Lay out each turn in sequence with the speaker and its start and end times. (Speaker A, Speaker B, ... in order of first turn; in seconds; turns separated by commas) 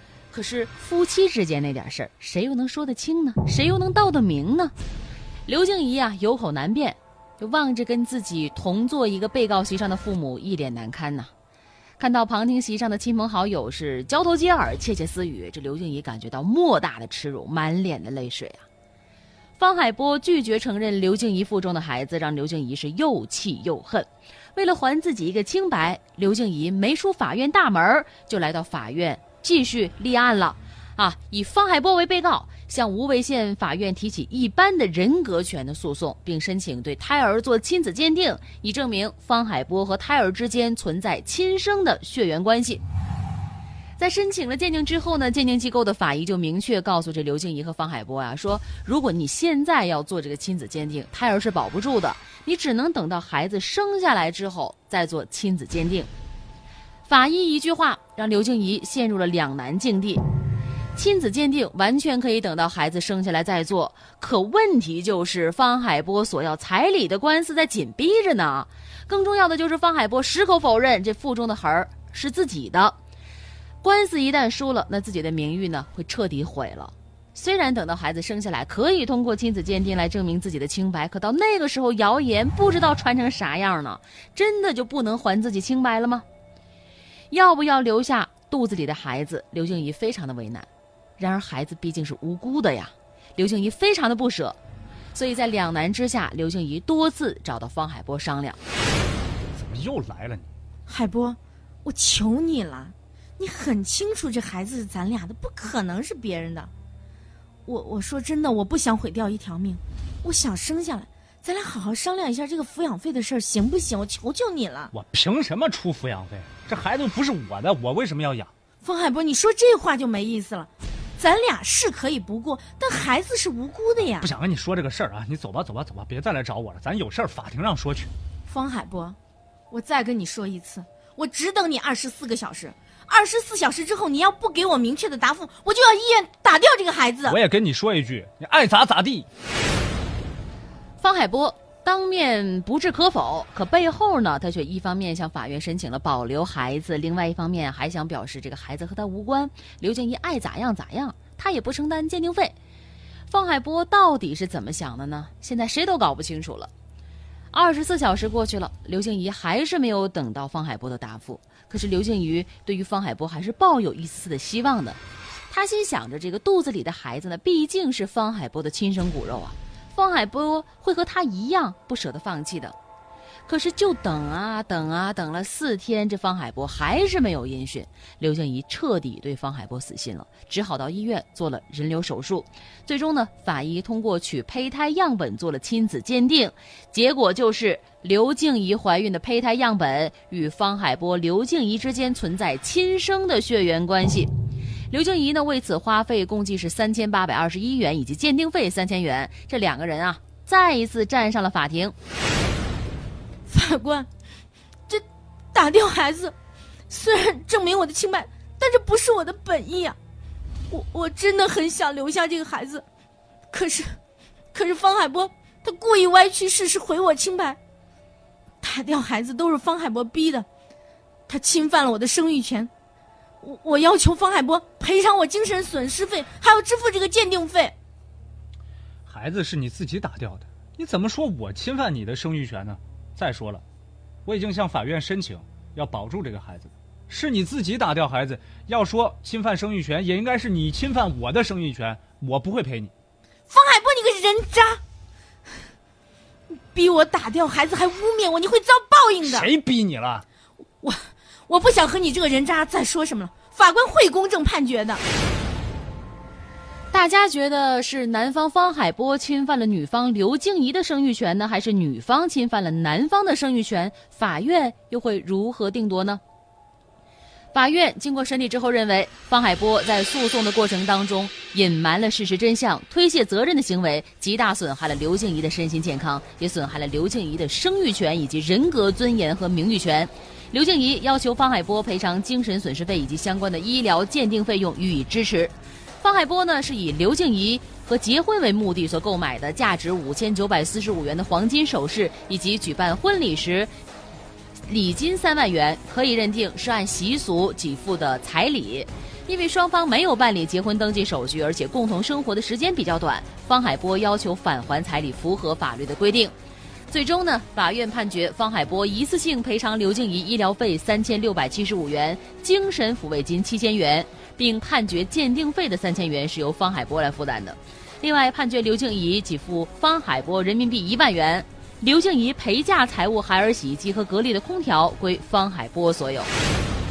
Speaker A: 0.3-4.7, Speaker A: 5.5-11.3, Speaker A: 12.0-18.6, Speaker A: 19.6-42.8, Speaker A: 44.0-56.1, Speaker A: 57.1-60.2, Speaker A: 61.0-73.0, Speaker A: 73.8-86.2, Speaker A: 87.3-90.7, Speaker A: 91.2-94.6, Speaker A: 95.1-98.6, Speaker B: 99.5-100.5, Speaker C: 100.9-106.7, Speaker C: 107.7-114.9, Speaker B: 114.9-118.5, Speaker C: 118.8-124.3, Speaker B: 124.0-128.1, Speaker C: 128.5-129.2, Speaker C: 129.7-137.4, Speaker B: 137.3-139.3, Speaker A: 141.0-152.6, Speaker A: 153.3-156.7, Speaker A: 157.5-172.8, Speaker A: 173.5-194.3, Speaker A: 194.9-201.9, Speaker C: 203.5-204.1, Speaker C: 204.9-206.3, Speaker C: 206.9-210.0, Speaker C: 210.7-212.8, Speaker C: 213.5-214.0, Speaker C: 214.5-217.6, Speaker C: 218.6-220.5, Speaker C: 221.3-222.7, Speaker C: 223.4-227.7, Speaker B: 229.1-233.6, Speaker B: 234.2-242.9, Speaker C: 243.5-244.8, Speaker C: 246.5-249.5, Speaker B: 249.2-250.2, Speaker C: 250.8-255.0, Speaker A: 256.9-266.2, Speaker A: 267.5-293.7, Speaker A: 294.7-306.3, Speaker A: 306.9-326.3